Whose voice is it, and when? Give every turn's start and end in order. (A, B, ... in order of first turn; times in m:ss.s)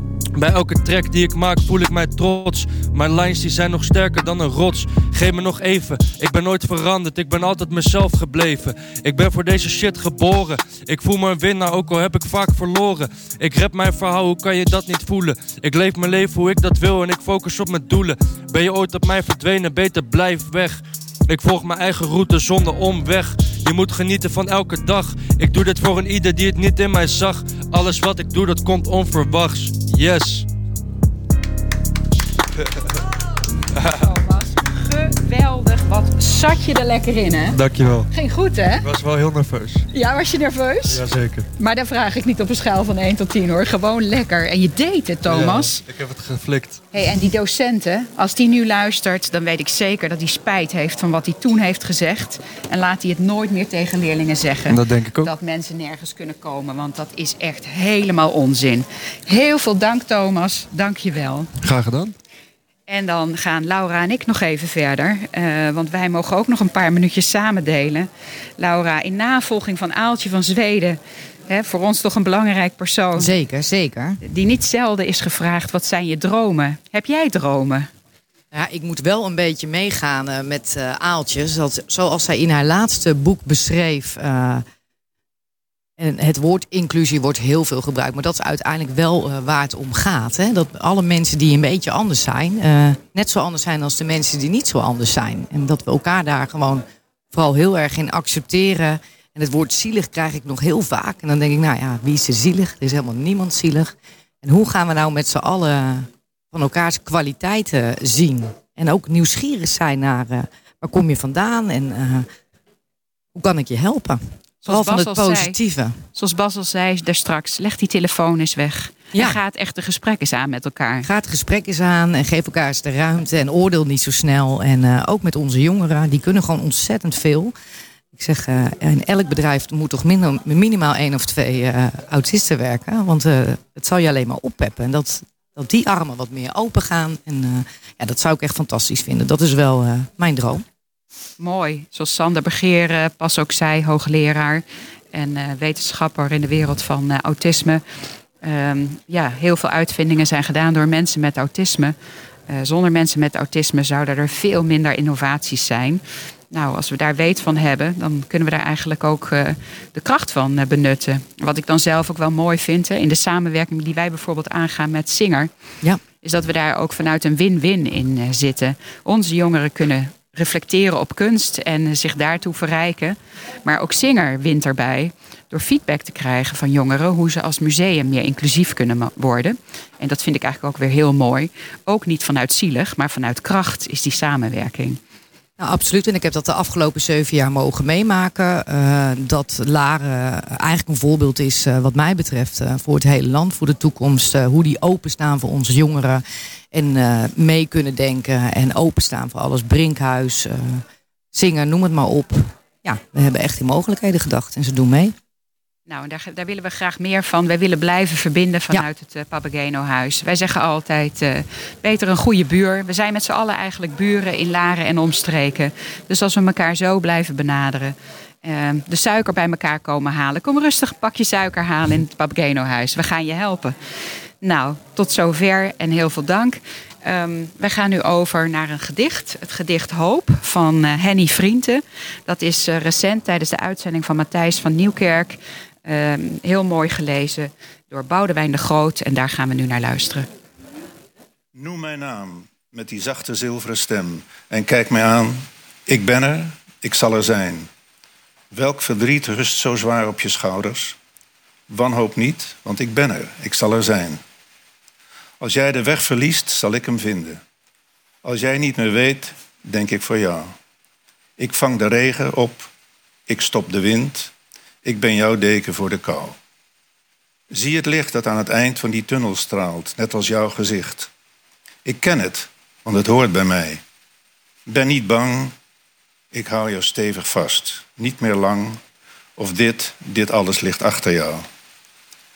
0:00.3-0:30.4 A
0:33.9-0:37.6 B
0:37.5-0:38.1 A
0:38.1-0:38.8 B
0:38.8-0:39.9 A
0:39.9-0:41.0 B
0:40.9-0:41.5 A
0:41.6-0:45.8 B
0:45.2-0:46.8 A
0:46.9-1:01.5 B
0:54.7-0:55.3 A
1:01.6-1:02.1 A
1:02.9-1:13.3 B
1:13.2-1:14.2 C
1:14.2-1:17.9 B
1:18.5-1:24.6 C
1:26.0-1:52.3 C
1:53.3-1:56.0 C
1:54.6-1:55.6 B
1:56.1-2:01.1 B
2:01.0-2:07.5 C
2:08.1-2:20.6 C
2:21.4-2:27.8 B
2:28.4-2:31.9 B
2:32.5-2:45.5 B
2:46.2-3:05.0 B
3:05.6-3:25.1 C
3:25.9-3:43.8 B
3:44.4-4:00.3 B
4:01.5-4:07.7 D
4:08.5-4:11.0 D
4:11.7-4:14.2 D
4:15.4-4:17.4 D
4:18.2-4:20.5 D
4:21.4-4:22.7 D
4:23.3-4:24.3 D
4:24.8-4:26.4 D
4:27.5-4:31.1 D
4:31.8-4:33.8 D
4:34.7-4:35.5 D
4:36.3-4:38.8 D
4:39.4-4:41.4 D